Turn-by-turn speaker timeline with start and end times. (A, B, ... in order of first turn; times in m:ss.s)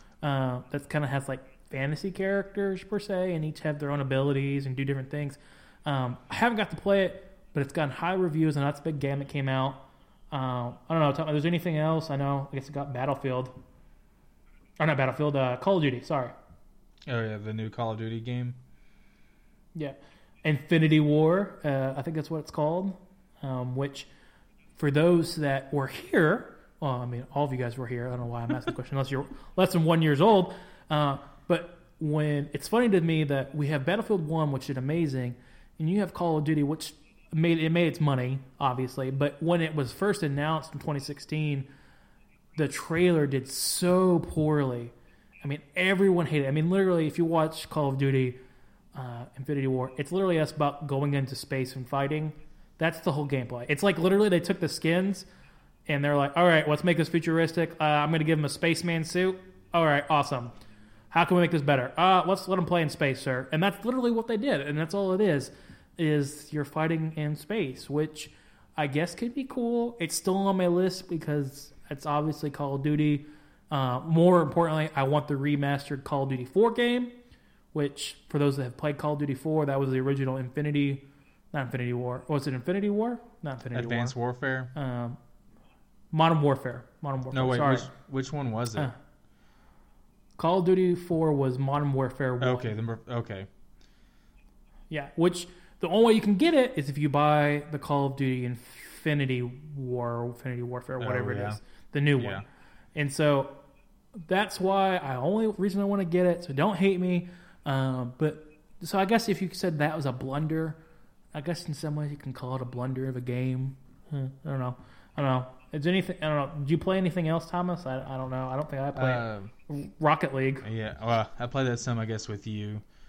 0:00.2-0:13.5 A
0:14.8-0:16.3 A
0:17.1-0:18.6 B
0:19.7-0:24.1 A
0:24.8-0:41.7 A
0:42.6-0:48.4 A
0:48.9-0:55.3 A
0:55.9-1:00.5 A
1:01.1-1:17.1 A
1:17.7-1:24.1 A
1:23.7-1:24.7 B
1:24.7-1:25.2 A
1:26.1-1:27.9 A
1:27.3-1:28.9 B
1:30.4-1:32.7 A
1:32.4-1:33.5 B
1:34.9-1:42.4 A
1:41.0-1:41.6 B
1:42.2-1:42.4 B
1:42.9-1:43.6 A
1:44.3-1:50.8 A
1:51.3-2:00.6 A
1:58.9-1:59.5 B
2:00.6-2:02.8 B